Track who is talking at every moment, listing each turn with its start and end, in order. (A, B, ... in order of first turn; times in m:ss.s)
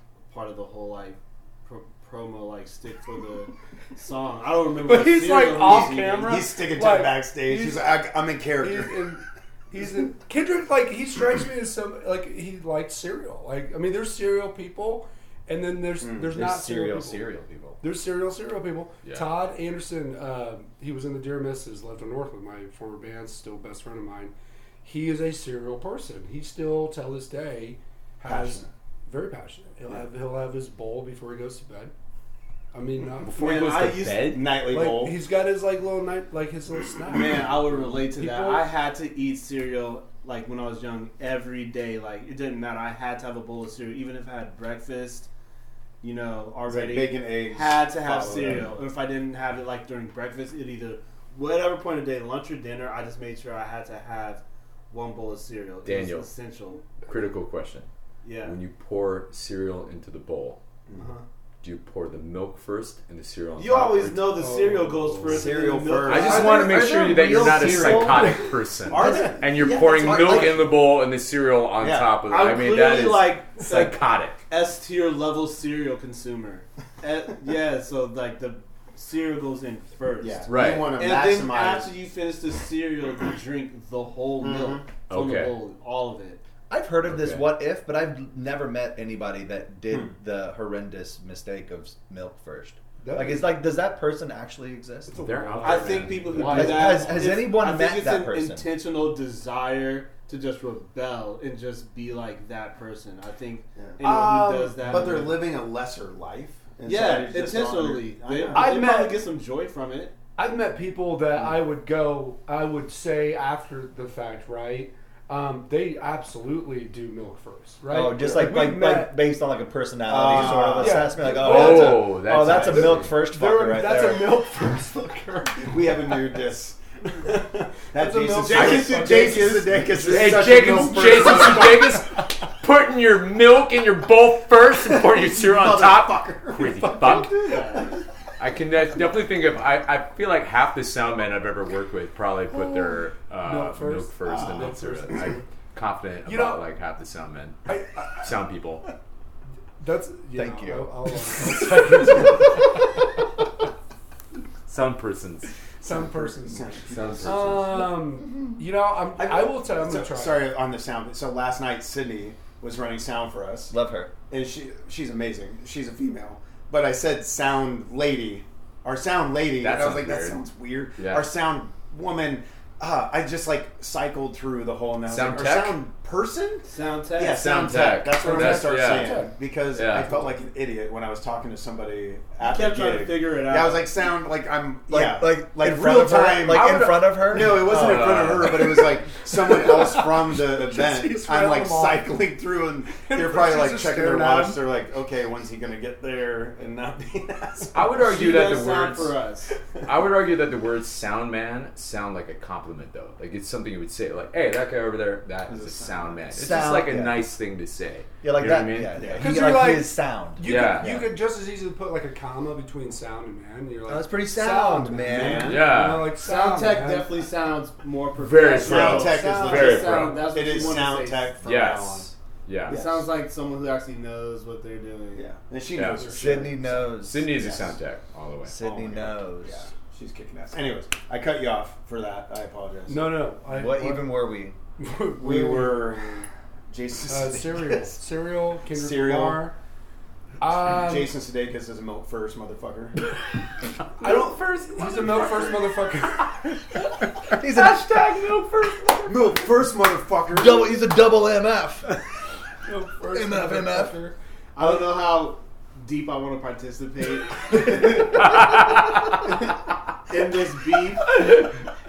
0:00.3-0:06.4 A
0:04.8-0:17.2 B
0:05.9-0:09.2 C
0:16.0-0:16.3 C
0:16.2-0:17.8 D
0:17.8-0:31.9 B
0:19.0-0:19.3 E
0:28.2-0:28.7 C
0:32.7-0:33.6 B
0:33.2-0:34.6 E
0:33.4-0:34.4 A
0:34.2-0:35.2 C
0:34.6-0:38.7 B
0:37.1-0:45.3 A
0:46.0-0:56.9 A
0:46.7-0:48.8 C
0:55.8-0:56.3 E
0:57.0-0:57.9 E
0:58.2-0:58.6 A
0:58.4-1:00.6 E
1:00.9-1:01.2 A
1:01.6-1:04.4 E
1:03.6-1:06.7 A
1:04.3-1:05.6 B
1:05.3-1:08.4 D
1:05.3-1:06.6 C
1:06.0-1:14.4 E
1:07.4-1:08.5 B
1:08.9-1:10.6 C
1:09.0-1:10.7 D
1:11.8-1:12.1 C
1:12.3-1:26.4 A
1:20.2-1:21.9 C
1:20.5-1:21.0 E
1:24.4-1:24.8 C
1:25.1-1:25.6 E
1:26.7-1:35.2 D
1:27.0-1:27.5 E
1:33.0-1:33.5 B
1:35.1-1:37.2 B
1:35.1-1:37.2 E
1:35.6-1:45.4 A
1:36.5-1:38.7 D
1:43.8-1:48.8 C
1:44.0-1:45.2 B
1:46.8-1:50.2 A
1:48.5-1:49.3 B
1:50.4-1:59.2 B
1:57.9-2:04.2 D
2:00.1-2:01.2 C
2:00.3-2:06.1 B
2:01.2-2:03.1 E
2:05.6-2:12.0 C
2:07.9-2:12.0 B
2:08.4-2:09.7 A
2:08.5-2:09.0 E
2:09.9-2:17.5 E
2:14.9-2:17.9 C
2:16.8-2:17.6 B
2:17.4-2:17.8 A
2:18.4-2:28.8 E
2:23.4-2:25.4 B
2:24.3-2:24.8 C
2:26.2-2:26.6 B
2:27.7-2:28.2 B
2:29.8-2:32.9 B
2:30.3-2:30.9 D
2:34.7-2:35.5 E
2:35.8-2:40.5 B
2:35.8-2:37.6 C
2:36.9-2:37.9 E
2:39.2-2:43.7 C
2:43.7-2:44.1 D
2:44.3-3:17.9 C
2:49.6-2:50.4 E
2:51.0-2:51.3 E
2:55.0-2:55.8 E
2:56.6-2:57.4 A
2:57.3-3:00.1 E
2:58.1-2:59.4 B
3:02.4-3:03.9 A
3:04.9-3:07.8 D
3:06.4-3:08.8 E
3:09.3-3:12.3 B
3:12.9-3:14.6 B
3:17.7-3:19.2 E
3:17.9-3:19.5 A
3:19.8-3:29.2 E
3:25.5-3:26.3 C
3:26.3-3:27.2 D
3:28.2-3:30.9 D
3:29.0-3:29.4 C
3:29.2-3:37.1 B
3:30.4-3:31.0 E
3:33.9-3:35.6 D
3:35.1-3:35.7 C
3:35.4-3:36.1 E
3:36.1-3:41.3 A
3:38.2-3:40.8 E
3:38.5-3:42.1 C
3:41.4-3:42.8 E
3:42.7-3:43.1 C
3:42.7-3:45.3 A
3:45.2-3:47.7 C
3:45.7-3:46.0 E
3:46.0-3:47.4 D
3:47.0-3:48.6 E
3:48.4-3:49.6 D
3:48.6-3:53.2 C
3:52.9-3:54.2 B
3:53.5-3:54.6 D
3:54.8-3:56.3 B
3:55.2-3:58.0 C
3:57.1-3:59.6 B
3:58.7-3:59.4 C
4:00.4-4:01.1 B
4:00.4-4:03.0 C
4:03.9-4:09.2 E
4:04.0-4:06.3 B
4:07.3-4:07.9 D
4:09.0-4:10.8 C
4:10.3-4:12.0 D
4:12.6-4:14.2 B
4:13.1-4:14.0 D
4:14.5-4:18.2 A
4:20.1-4:21.1 A